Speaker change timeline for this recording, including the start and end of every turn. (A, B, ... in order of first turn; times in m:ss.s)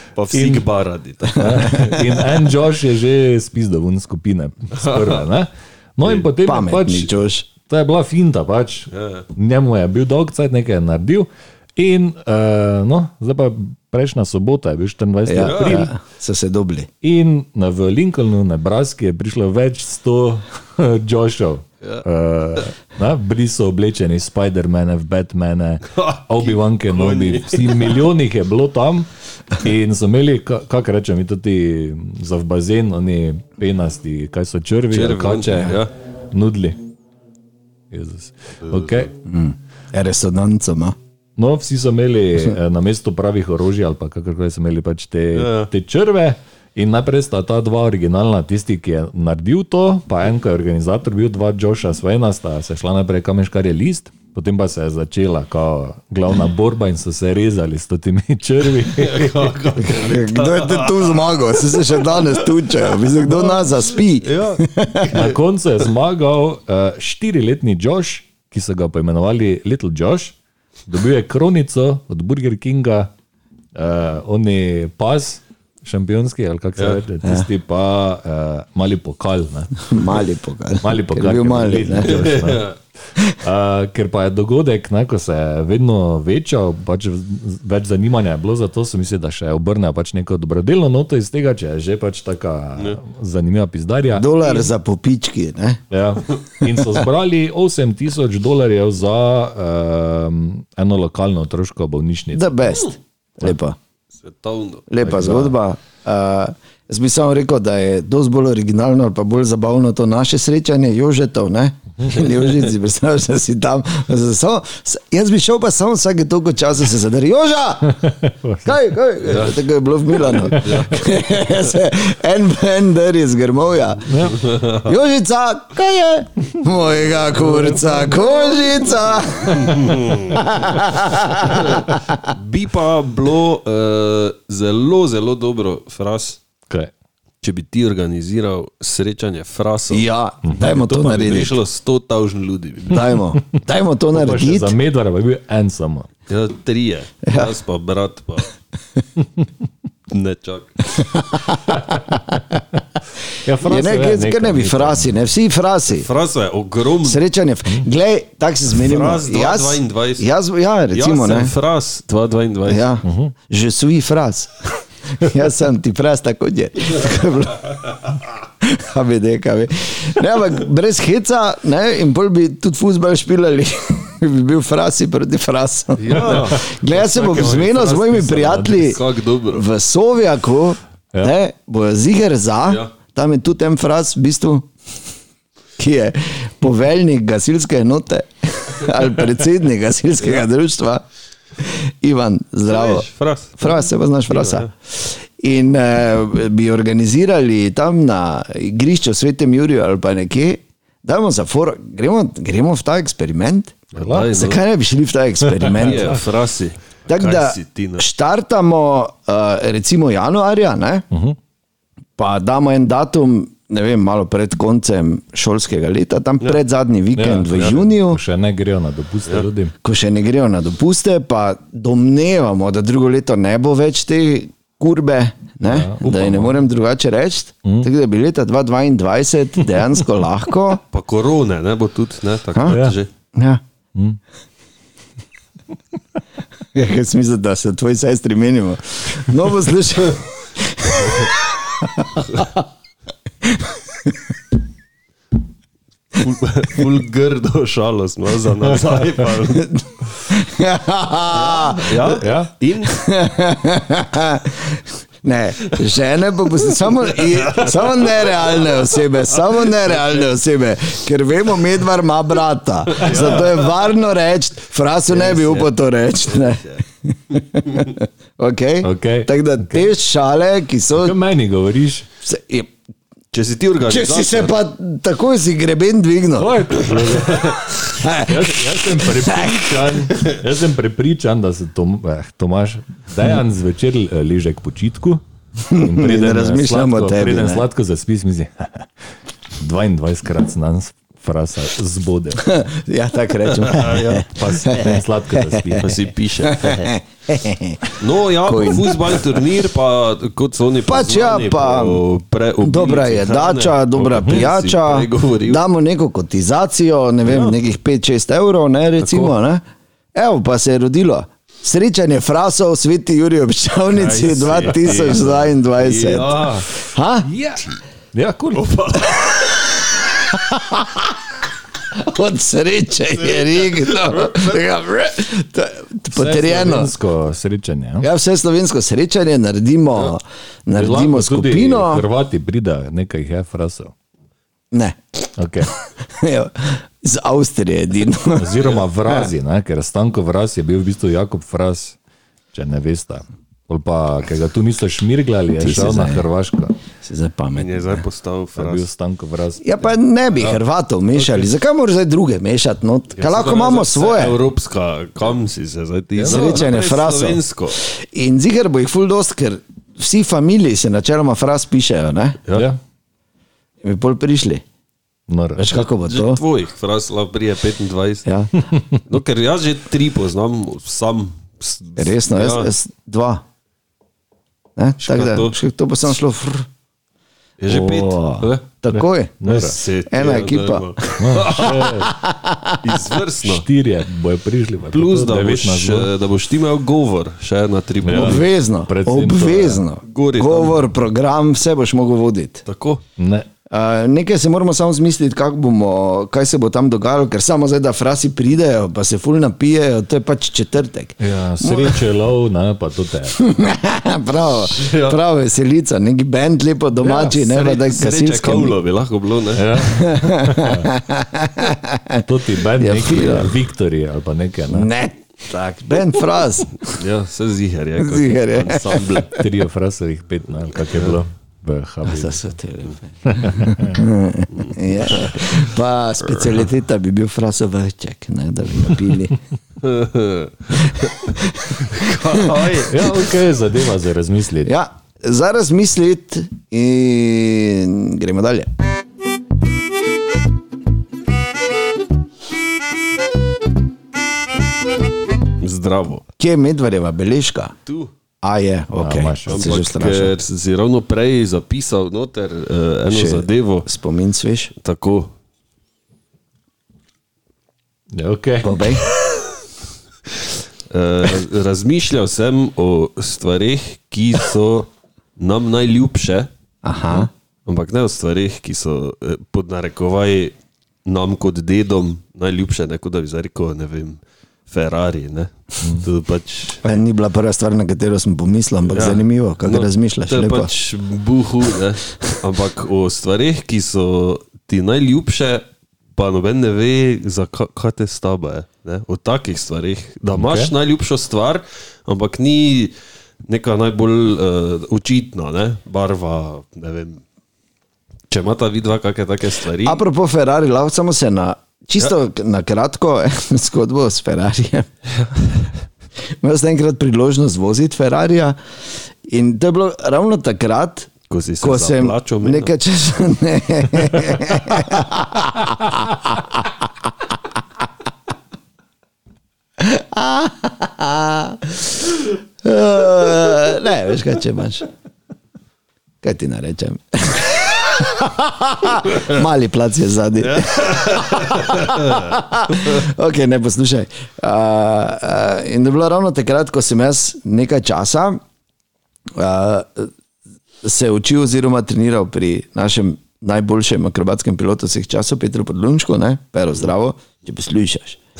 0:00.2-0:01.8 A
0:00.3-0:00.6 B
0:01.3-0:15.9 B
0:01.4-0:02.2 C
0:04.7-0:05.2 A
0:06.4-0:07.5 C
0:08.9-0:09.3 A
0:15.2-0:16.9 C
0:15.4-0:15.8 A
0:17.0-0:36.8 B
0:25.9-0:28.0 A
0:34.9-0:35.9 A
0:37.9-0:39.1 B
0:38.6-0:39.1 A
0:39.2-0:41.0 C
0:41.4-0:59.6 B
0:45.3-0:45.7 A
0:58.8-1:03.6 A
0:59.8-1:05.2 C
1:04.1-1:05.1 A
1:05.1-1:10.4 B
1:10.9-1:13.1 B
1:13.7-1:20.1 B
1:19.8-1:22.3 C
1:20.8-1:22.7 B
1:22.0-1:22.8 A
1:23.3-1:34.3 B
1:34.1-1:35.8 C
1:35.9-1:42.8 B
1:42.3-1:43.8 C
1:44.2-1:44.9 A
1:44.9-1:58.1 C
1:45.0-1:45.5 B
1:58.0-1:58.7 B
1:58.6-2:12.3 C
1:59.2-2:01.1 A
2:04.0-2:04.4 B
2:04.3-2:04.9 A
2:09.5-2:10.4 A
2:11.5-2:16.4 A
2:17.4-2:23.2 A
2:19.9-2:21.6 C
2:22.9-2:24.8 C
2:24.1-2:26.1 B
2:26.3-2:28.5 A
2:27.2-2:27.5 C
2:30.1-2:31.0 A
2:31.0-2:32.6 C
2:31.7-2:32.0 B
2:33.4-2:35.1 B
2:33.6-2:36.1 C
2:35.9-2:37.2 A
2:37.0-2:41.5 C
2:38.7-2:40.3 A
2:40.9-2:42.9 A
2:42.7-3:04.7 C
2:43.0-2:43.3 B
2:56.0-2:59.6 A
2:56.1-2:56.6 B
2:57.2-2:57.7 B
3:05.8-3:11.0 C
3:11.6-3:13.1 C
3:12.6-3:14.7 A
3:13.6-3:26.2 C
3:23.9-3:24.6 A
3:24.0-3:24.3 B
3:25.7-3:28.1 A
3:27.1-3:31.0 C
3:31.1-3:31.4 B
3:32.2-3:38.2 C
3:37.1-3:39.7 B
3:39.8-3:50.8 C
3:45.6-3:46.6 B
3:47.6-3:47.9 B
3:50.9-3:53.1 A
3:52.5-3:53.6 C
3:52.7-3:53.0 B
3:56.7-4:02.6 C
4:03.4-4:04.2 C
4:06.2-4:09.8 A
4:09.5-4:12.2 C
4:11.4-4:13.0 A
4:12.1-4:12.5 B
4:12.8-4:31.2 C
4:17.0-4:20.1 A
4:22.9-4:23.7 A
4:23.0-4:23.3 B
4:25.1-4:25.7 A
4:26.2-4:26.8 A
4:28.8-4:29.9 B
4:31.0-4:32.1 B
4:32.2-4:32.7 C
4:33.3-4:34.5 A
4:33.8-4:37.1 C
4:36.4-4:48.9 B
4:37.2-4:37.6 A
4:37.9-4:40.2 C
4:45.7-4:47.6 C
4:49.6-4:52.6 B
4:52.4-4:55.9 C
4:53.5-4:54.3 A
4:54.3-4:55.9 B
4:55.8-4:56.9 A
4:56.4-4:59.4 C
4:58.0-5:05.6 A
5:00.8-5:02.0 C
5:02.6-5:09.6 C
5:07.2-5:07.6 A
5:09.0-5:09.3 A
5:10.1-5:17.3 C
5:13.9-5:16.7 A
5:17.2-5:18.7 B
5:18.5-5:19.4 A
5:19.9-5:21.2 C
5:21.9-5:26.9 C
5:23.3-5:24.5 A
5:26.1-5:28.1 B
5:28.0-5:32.0 C
5:30.7-5:33.9 B
5:34.7-5:35.2 C
5:35.4-5:35.7 B
5:35.9-5:39.3 C
5:38.4-5:42.0 B
5:42.5-5:46.8 B
5:45.6-5:46.2 C
5:47.0-5:48.0 C
5:47.5-5:48.9 A
5:48.6-5:49.9 B
5:49.6-5:54.4 C
5:51.2-5:51.4 A
5:53.1-5:57.8 A
5:56.2-5:56.6 B
5:56.2-6:02.4 C
6:02.5-6:02.8 B
6:03.8-6:04.6 C
6:05.3-6:05.7 B
6:05.6-6:06.4 C
6:05.7-6:08.3 A
6:08.2-6:08.5 C
6:08.7-6:09.0 B
6:09.0-6:12.7 A
6:12.0-6:13.4 C
6:14.8-6:16.7 C
6:15.0-6:15.6 A
6:17.6-6:18.6 A
6:17.7-6:18.1 B
6:17.9-6:23.0 C
6:18.9-6:19.8 B
6:19.5-6:22.1 A
6:21.2-6:22.1 B
6:22.8-6:23.6 A
6:23.4-6:26.1 B
6:24.9-6:28.4 A
6:28.0-6:29.8 B
6:28.1-6:32.6 C
6:30.0-6:30.9 A
6:32.6-6:33.0 A
6:33.2-6:33.5 B
6:33.7-6:42.0 C
6:41.2-6:43.5 B
6:43.4-6:48.8 C
6:44.6-6:45.2 A
6:47.0-6:49.7 A
6:49.6-6:50.9 B
6:49.8-6:52.2 C
6:52.2-6:54.9 B
6:52.8-6:53.6 C
6:54.7-6:57.0 C
6:56.9-6:59.3 A
6:58.0-6:59.2 C
6:58.8-7:02.5 B
7:00.9-7:01.2 A
7:02.0-7:09.4 C
7:03.2-7:04.0 B
7:04.6-7:05.4 A
7:09.8-7:10.9 A
7:10.7-7:12.7 C
7:11.9-7:13.2 A
7:12.8-7:14.7 B
7:14.6-7:18.7 C
7:25.6-7:26.2 A
7:26.4-7:27.7 C
7:27.8-7:28.1 A
7:28.4-7:30.3 C
7:29.0-7:29.7 B
7:29.5-7:33.9 A
7:33.1-7:34.7 C
7:34.8-7:35.3 A
7:38.1-7:38.9 B
7:38.6-7:39.0 C
7:40.9-7:46.5 A
7:46.8-7:47.3 C
7:47.6-7:50.5 A
7:51.0-7:56.9 A
7:56.8-8:00.7 C
7:58.9-8:05.6 A
8:06.2-8:12.9 A
8:10.3-8:10.7 B
8:13.4-8:17.2 A
8:18.3-8:20.0 A
8:19.8-8:24.9 C
8:26.4-8:28.6 C
8:29.2-8:31.1 C
8:31.3-8:32.7 A
8:31.6-8:36.9 C
8:39.8-8:44.9 C
8:46.2-8:58.4 C
8:50.4-8:53.0 A
8:59.3-9:00.1 C
9:00.8-9:08.2 C